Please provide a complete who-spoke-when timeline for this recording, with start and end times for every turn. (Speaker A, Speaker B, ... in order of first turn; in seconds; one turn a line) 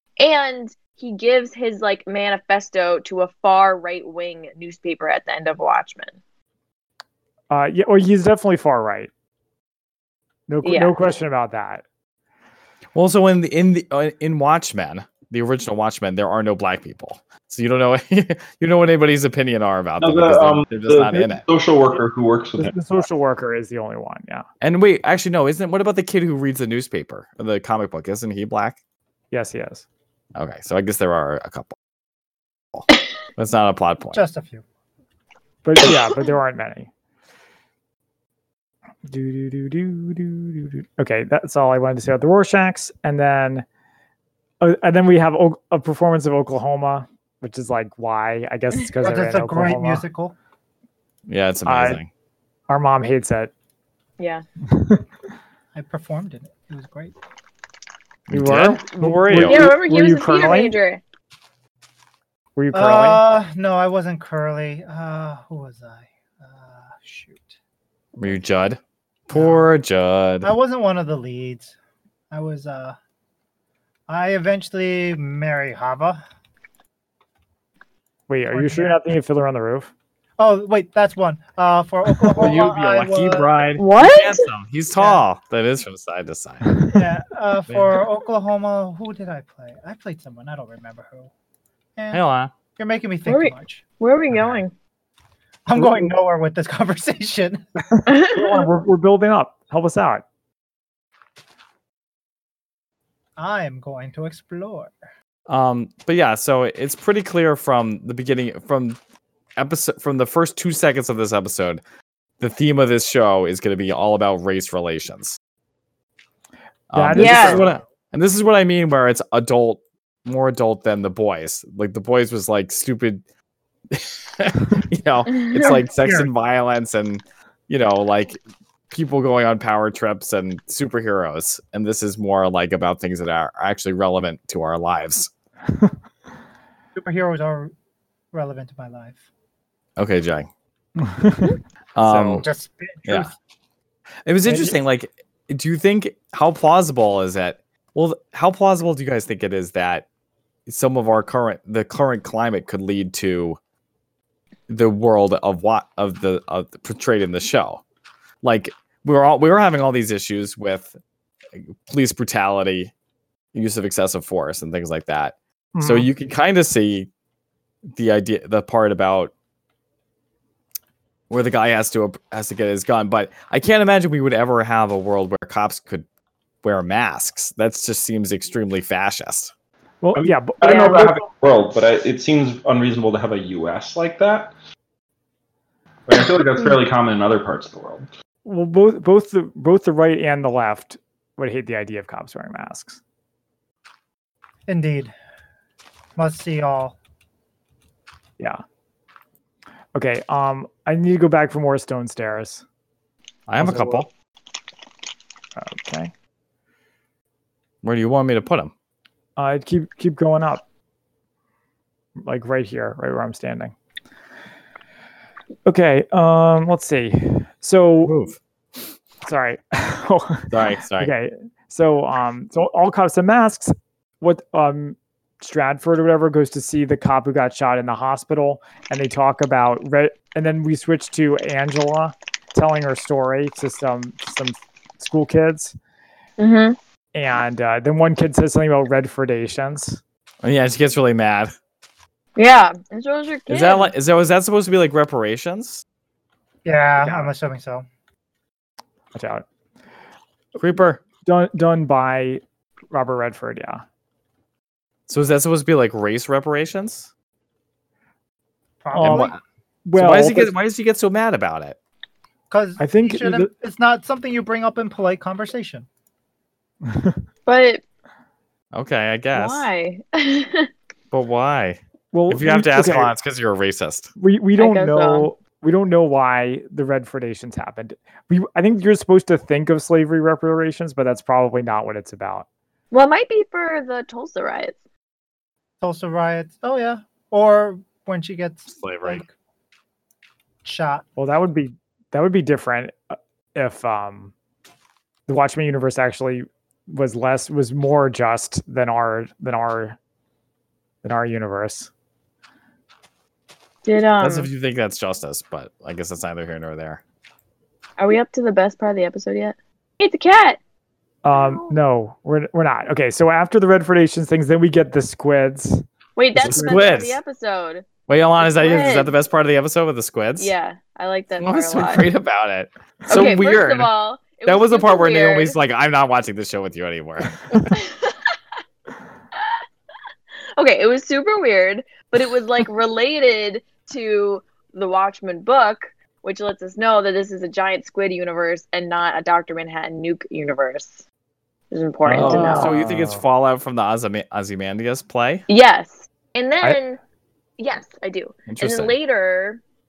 Speaker A: 0.2-6.2
Speaker B: 7.5-9.1
Speaker B: 10.5-11.8
Speaker A: 10.6-10.9
Speaker C: 12.9-21.4
Speaker D: 20.0-22.7
Speaker B: 22.6-24.4
Speaker C: 24.6-28.8
Speaker B: 29.3-29.8
Speaker C: 30.4-31.8
Speaker C: 32.7-34.2
Speaker E: 34.1-34.6
Speaker B: 35.6-36.9
Speaker B: 39.1-43.6
Speaker B: 44.6-50.0
Speaker E: 49.0-50.3
Speaker C: 51.3-52.1
Speaker B: 51.6-52.0
Speaker B: 52.7-53.5
Speaker A: 54.2-54.4
Speaker B: 54.7-55.0
Speaker E: 55.7-57.1
Speaker C: 58.3-59.7
Speaker B: 58.3-60.8
Speaker A: 59.3-61.0
Speaker B: 62.5-63.2
Speaker E: 62.7-67.5
Speaker C: 68.2-70.5
Speaker E: 69.3-69.7
Speaker E: 70.4-71.7
Speaker E: 72.3-73.0
Speaker E: 74.1-76.2
Speaker B: 78.3-79.9
Speaker E: 78.5-79.0
Speaker E: 80.4-83.6
Speaker C: 82.4-86.7
Speaker A: 83.8-84.5
Speaker E: 85.0-85.2
Speaker B: 86.6-87.0
Speaker E: 86.9-91.3
Speaker C: 87.7-88.0
Speaker E: 92.0-92.2
Speaker C: 92.1-92.5
Speaker E: 92.8-93.8
Speaker A: 93.2-94.7
Speaker B: 94.3-94.6
Speaker E: 95.7-97.7
Speaker B: 95.8-96.1
Speaker B: 97.9-100.2
Speaker A: 98.0-98.7
Speaker E: 103.4-104.9
Speaker C: 105.5-109.0
Speaker C: 109.6-111.8
Speaker C: 112.4-115.4
Speaker C: 116.9-123.2
Speaker B: 116.9-117.8
Speaker A: 117.1-117.6
Speaker C: 123.9-128.4
Speaker A: 125.3-125.8
Speaker E: 125.9-126.3
Speaker C: 128.9-135.3
Speaker E: 136.9-137.7
Speaker E: 138.3-139.2
Speaker C: 140.0-140.5
Speaker B: 140.9-141.6
Speaker C: 141.9-142.5
Speaker E: 142.1-143.3
Speaker B: 142.1-142.4
Speaker C: 144.2-150.1
Speaker E: 144.4-144.7
Speaker C: 150.7-153.6
Speaker C: 154.7-157.8
Speaker C: 158.4-160.9
Speaker C: 161.6-162.9
Speaker C: 163.5-167.1
Speaker B: 165.7-166.1
Speaker C: 167.9-169.3
Speaker C: 171.3-176.1
Speaker C: 176.6-179.5
Speaker B: 180.0-181.2
Speaker D: 180.1-184.5
Speaker A: 180.6-181.1
Speaker D: 186.1-188.1
Speaker B: 188.4-193.0
Speaker E: 194.7-195.1
Speaker E: 196.2-196.9
Speaker B: 199.9-202.6
Speaker C: 203.5-204.1
Speaker B: 203.6-204.1
Speaker B: 205.6-206.1
Speaker C: 207.8-208.7
Speaker B: 209.4-210.6
Speaker B: 212.2-213.7
Speaker B: 215.7-218.1
Speaker C: 218.0-218.4
Speaker B: 219.2-235.8
Speaker C: 220.5-221.1
Speaker A: 236.4-236.8
Speaker B: 237.1-240.0
Speaker C: 240.4-241.5
Speaker A: 242.3-243.9
Speaker C: 243.5-245.8
Speaker E: 246.6-247.8
Speaker B: 247.0-247.3
Speaker B: 249.1-249.4
Speaker C: 250.6-251.0
Speaker B: 251.2-253.8
Speaker C: 255.1-257.1
Speaker E: 258.8-259.3
Speaker B: 258.9-259.3
Speaker C: 259.0-259.4
Speaker B: 259.9-260.5
Speaker C: 259.9-261.8
Speaker E: 262.5-265.9
Speaker B: 262.8-263.5
Speaker B: 266.9-267.2
Speaker A: 267.4-267.8
Speaker C: 268.7-269.7
Speaker A: 269.3-270.7
Speaker C: 271.1-274.1
Speaker B: 272.1-273.1
Speaker B: 274.2-282.4
Speaker A: 274.6-275.3
Speaker A: 282.9-284.7
Speaker E: 285.8-289.3
Speaker C: 288.8-289.2
Speaker E: 290.6-291.1
Speaker B: 291.2-294.3
Speaker B: 295.3-300.0
Speaker B: 301.0-301.9
Speaker A: 303.8-304.5
Speaker C: 304.2-307.0
Speaker A: 308.0-310.6
Speaker B: 311.2-316.8
Speaker A: 311.3-311.8
Speaker A: 316.1-317.9
Speaker C: 316.4-317.2
Speaker C: 318.1-320.5
Speaker A: 318.4-319.1
Speaker A: 320.4-322.1
Speaker C: 321.4-323.9
Speaker A: 323.1-325.5
Speaker C: 324.4-327.6
Speaker A: 327.5-328.3
Speaker A: 330.6-341.0
Speaker A: 341.7-342.7
Speaker B: 342.1-343.2
Speaker C: 342.1-345.4
Speaker A: 345.5-347.0
Speaker A: 347.6-349.6
Speaker C: 348.5-348.9